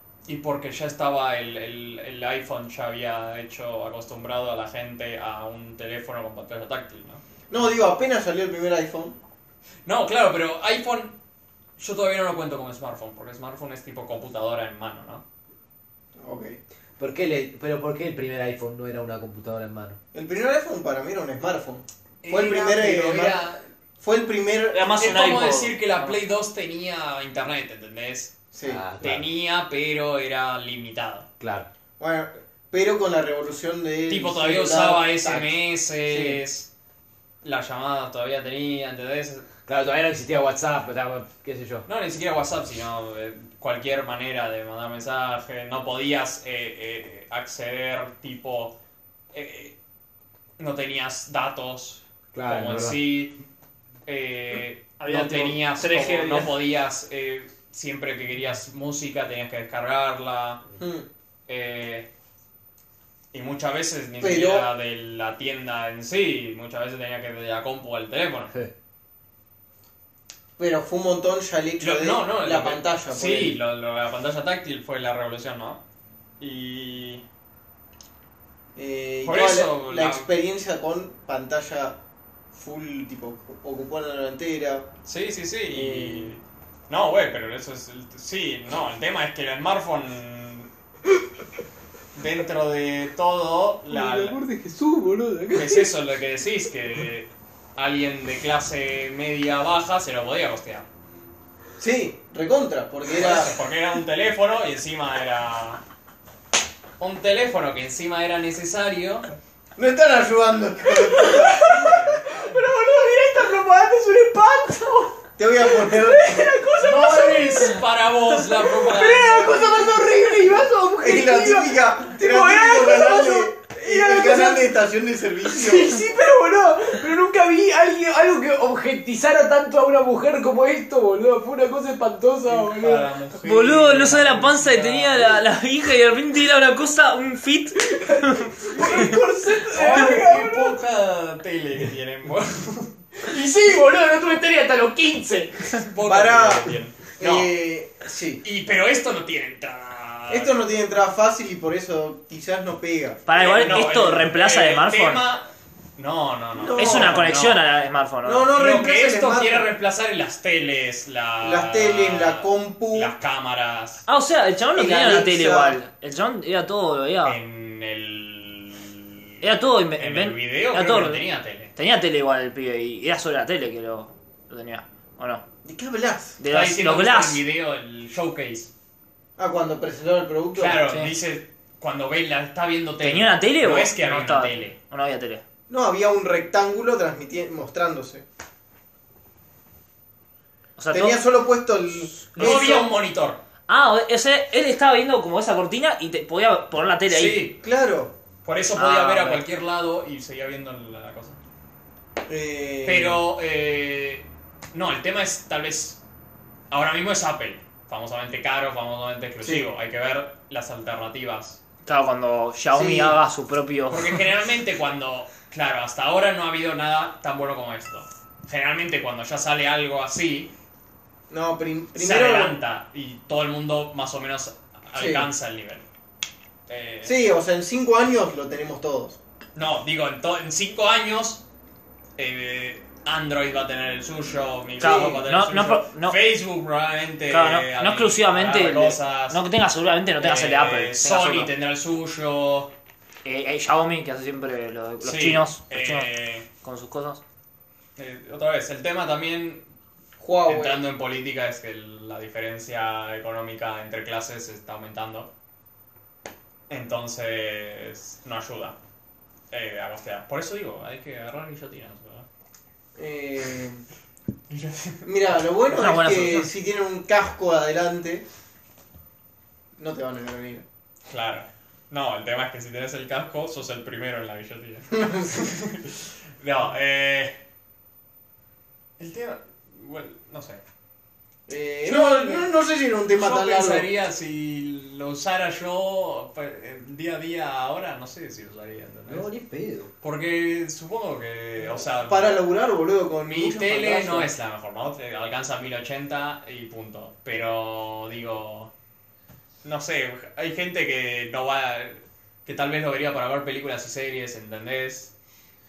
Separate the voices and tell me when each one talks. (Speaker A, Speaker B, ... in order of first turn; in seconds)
Speaker A: 0.3-7.2, 9.9-11.2, 11.8-15.2, 22.2-23.6, 25.0-28.4, 29.0-31.3, 34.1-36.7, 37.4-39.5, 41.9-48.8, 49.3-49.8, 50.6-53.4, 54.1-60.6, 61.5-62.1, 63.3-68.5, 71.8-75.8, 76.4-77.2, 79.2-80.3, 85.0-90.7, 92.1-94.4, 95.5-100.9, 103.1-105.8, 107.0-109.3, 111.5-112.5, 116.8-119.8, 132.5-135.3, 138.8-139.2, 139.7-143.0, 145.7-147.5, 148.4-150.6, 153.3-155.4, 156.0-157.6, 158.5-164.0, 167.2-169.3, 170.0-171.7, 176.5-178.7, 180.6-184.7, 192.4-193.4, 197.1-197.6, 198.4-201.4, 202.8-206.0, 206.7-211.6, 213.9-220.5, 221.9-225.8, 226.7-227.2, 229.6-231.4, 232.2-239.4, 240.2-242.7, 245.0-246.5, 248.0-249.6, 250.5-255.3, 256.7-258.8, 259.5-262.3, 264.5-265.1, 271.1-277.4, 279.0-280.6, 281.8-282.5, 283.1-289.3, 290.0-292.4, 293.2-298.7, 299.6-305.1
Speaker B: 7.5-9.2, 16.2-16.6, 20.1-23.5, 24.0-24.8, 28.5-28.8, 32.0-35.5, 36.1-36.4, 60.8-61.1, 64.2-64.7, 70.6-73.6, 78.8-82.0, 82.5-84.9, 85.7-86.3, 101.8-103.5, 109.8-111.7, 115.4-116.6, 121.0-126.1, 146.0-148.4, 150.3-153.2, 156.6-157.2, 158.2-159.7, 161.4-163.1, 164.8-165.8, 175.6-176.4, 179.4-180.9, 185.7-188.2, 190.9-192.9, 197.6-198.2, 202.3-203.2, 209.4-209.7, 212.7-213.2, 221.3-222.6, 224.9-225.3, 227.0-229.2, 234.8-235.2, 250.2-250.8, 263.0-263.9, 265.0-268.2, 269.8-270.6, 275.0-275.4, 281.5-283.9, 291.8-294.3
Speaker C: 17.0-20.0, 28.6-29.3, 31.4-31.7, 39.7-41.9, 52.3-53.0, 93.9-95.9, 110.9-124.7, 125.4-133.1, 138.0-140.8, 143.2-145.8, 289.1-289.9
Speaker D: 24.7-26.2, 55.0-56.6, 133.4-139.1, 153.3-155.2, 156.8-158.5, 164.1-167.4, 169.4-171.2, 171.8-175.4, 176.4-177.4, 183.0-185.4, 190.8-191.2, 192.4-192.8, 193.7-197.5, 198.8-199.4, 211.8-214.2, 234.8-236.2, 237.3-241.5, 243.2-247.2, 265.7-266.5